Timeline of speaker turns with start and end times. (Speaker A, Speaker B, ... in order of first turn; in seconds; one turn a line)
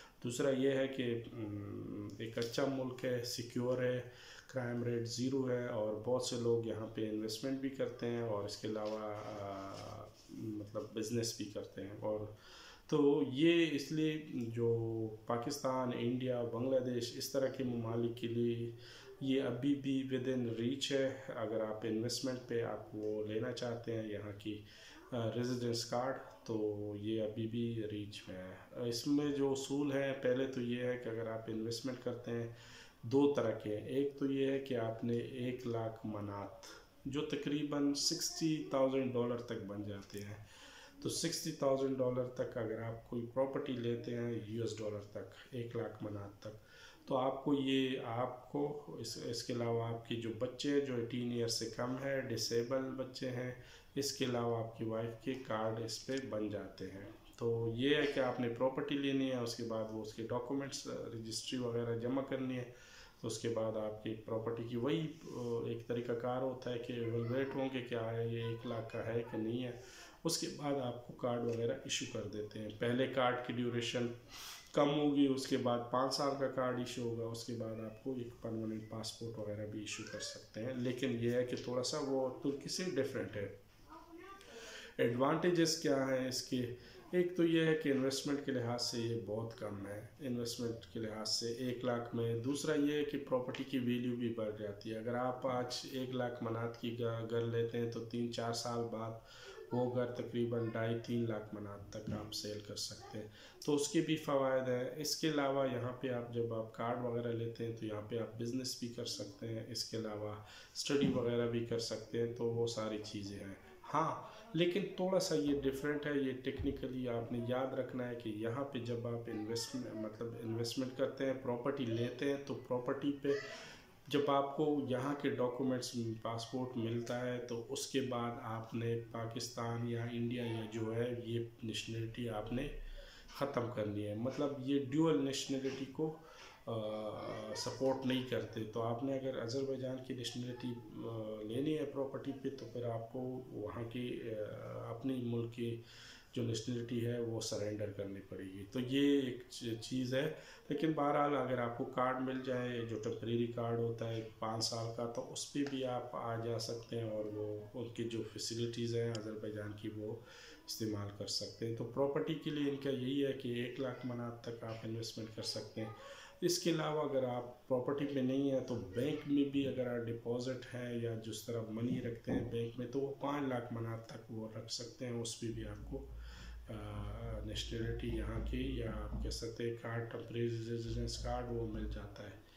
Speaker A: 0.2-40.4
Speaker A: 41.0-74.2
Speaker A: 74.7-83.6
Speaker A: 85.0-123.4
Speaker A: 124.0-132.8
Speaker A: 133.3-145.8
Speaker A: 146.3-176.1
Speaker A: 176.7-182.4